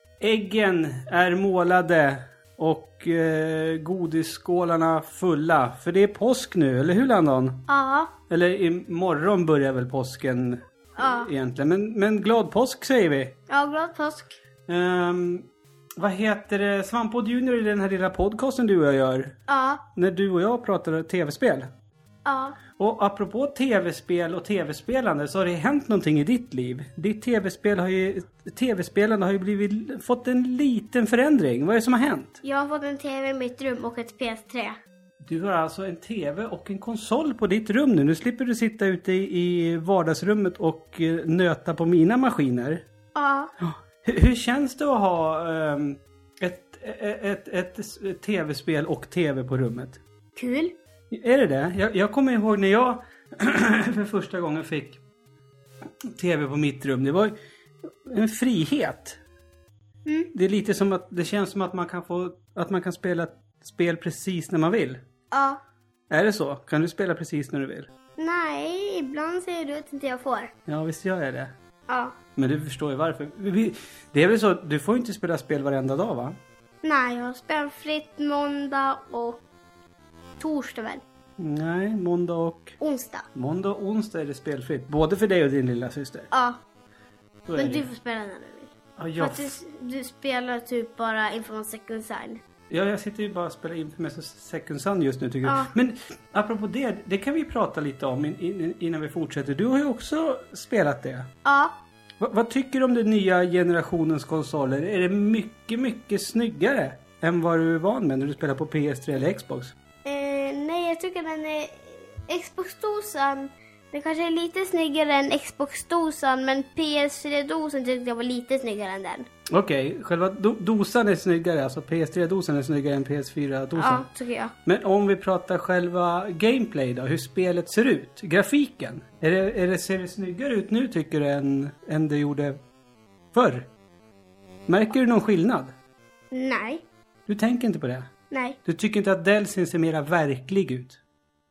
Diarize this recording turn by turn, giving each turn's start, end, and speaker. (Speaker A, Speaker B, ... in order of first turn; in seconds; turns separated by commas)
Speaker A: 0.2-7.7, Speaker B: 7.7-8.1, Speaker A: 8.3-13.3, Speaker B: 11.0-11.3, Speaker B: 13.5-14.4, Speaker A: 14.7-19.4, Speaker B: 19.5-19.8, Speaker A: 19.9-21.7, Speaker B: 22.2-22.6, Speaker A: 22.8-32.4, Speaker B: 32.4-34.8, Speaker A: 35.2-42.9, Speaker B: 43.1-43.5, Speaker A: 43.6-50.0, Speaker B: 50.4-50.8, Speaker A: 51.1-55.0, Speaker A: 56.0-57.3, Speaker A: 58.0-59.2, Speaker A: 60.3-65.0, Speaker B: 65.3-65.6, Speaker A: 66.1-67.9, Speaker B: 68.2-70.5, Speaker A: 70.7-71.5, Speaker B: 71.9-72.2, Speaker A: 72.4-76.4, Speaker B: 76.8-79.5, Speaker B: 80.4-81.0, Speaker A: 81.4-82.8, Speaker B: 82.8-83.3, Speaker A: 83.3-86.3, Speaker B: 86.3-86.6, Speaker A: 87.5-87.9, Speaker B: 87.6-92.4, Speaker A: 89.0-89.5, Speaker A: 92.7-101.3, Speaker B: 95.5-95.7, Speaker B: 101.5-101.7, Speaker A: 102.2-109.8, Speaker B: 110.0-119.3, Speaker A: 119.5-124.1, Speaker B: 123.8-124.5, Speaker A: 124.7-132.6, Speaker A: 133.3-133.7, Speaker A: 134.7-135.7, Speaker B: 136.3-136.8, Speaker A: 137.3-138.1, Speaker B: 138.3-138.6, Speaker A: 138.7-141.0